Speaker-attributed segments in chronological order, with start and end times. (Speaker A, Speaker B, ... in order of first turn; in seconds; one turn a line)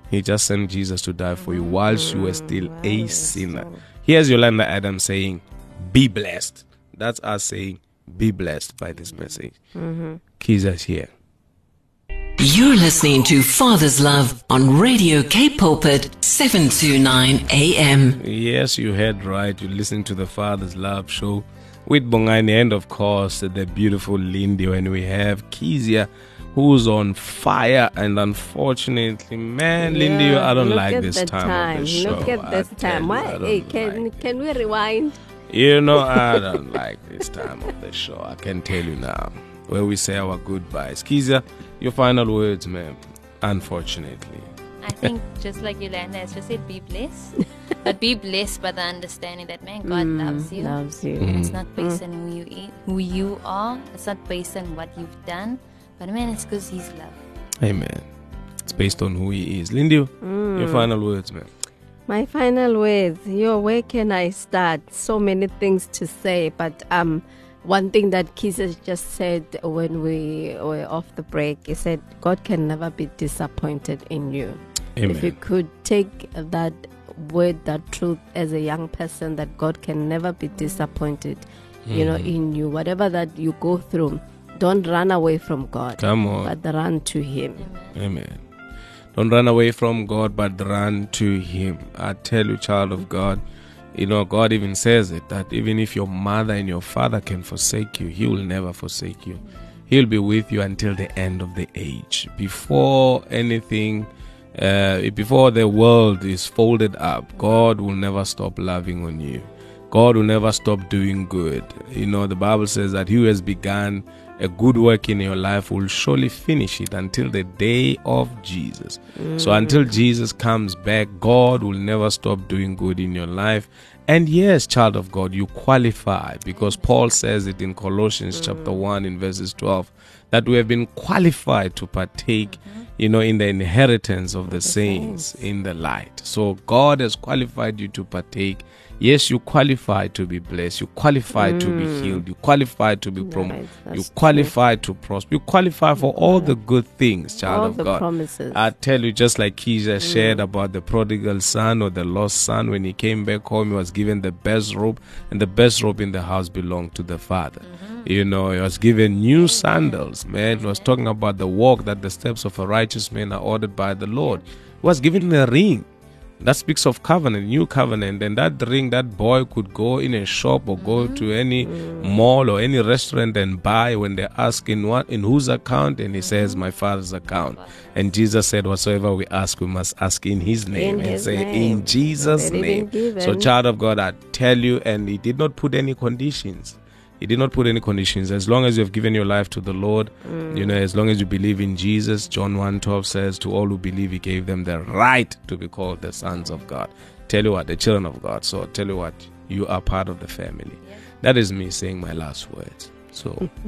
Speaker A: 0.1-9.6
Speaker B: 1.4-1.8
Speaker C: 1.8-3.8
Speaker B: 8.9-9.4
Speaker C: 9.7-10.2
Speaker A: 10.4-11.1
Speaker D: 12.4-18.2
Speaker A: 18.2-34.1
Speaker C: 29.8-35.2
Speaker A: 35.5-44.5
Speaker C: 36.0-36.5
Speaker B: 44.8-57.2
Speaker C: 49.8-52.0
Speaker A: 51.2-51.6
Speaker A: 57.6-58.0
Speaker A: 58.7-61.5
Speaker C: 60.2-60.9
Speaker C: 62.1-87.7
Speaker A: 75.0-75.3
Speaker A: 81.9-82.3
Speaker A: 86.0-86.5
Speaker B: 87.5-88.0
Speaker A: 88.0-88.4
Speaker A: 89.1-93.4
Speaker A: 94.0-165.9
Speaker C: 119.2-119.9
Speaker B: 126.5-126.9
Speaker C: 128.3-128.8
Speaker B: 132.4-132.9
Speaker C: 134.5-135.5
Speaker C: 141.3-142.2
Speaker C: 143.2-144.5
Speaker C: 146.0-146.6
Speaker C: 147.4-148.6
Speaker C: 150.0-150.4
Speaker B: 157.6-158.1
Speaker B: 159.3-160.9
Speaker A: 166.4-203.5
Speaker B: 170.8-171.3
Speaker C: 171.6-172.2
Speaker B: 176.2-176.6
Speaker B: 177.3-177.9
Speaker C: 180.7-183.5
Speaker C: 190.2-190.8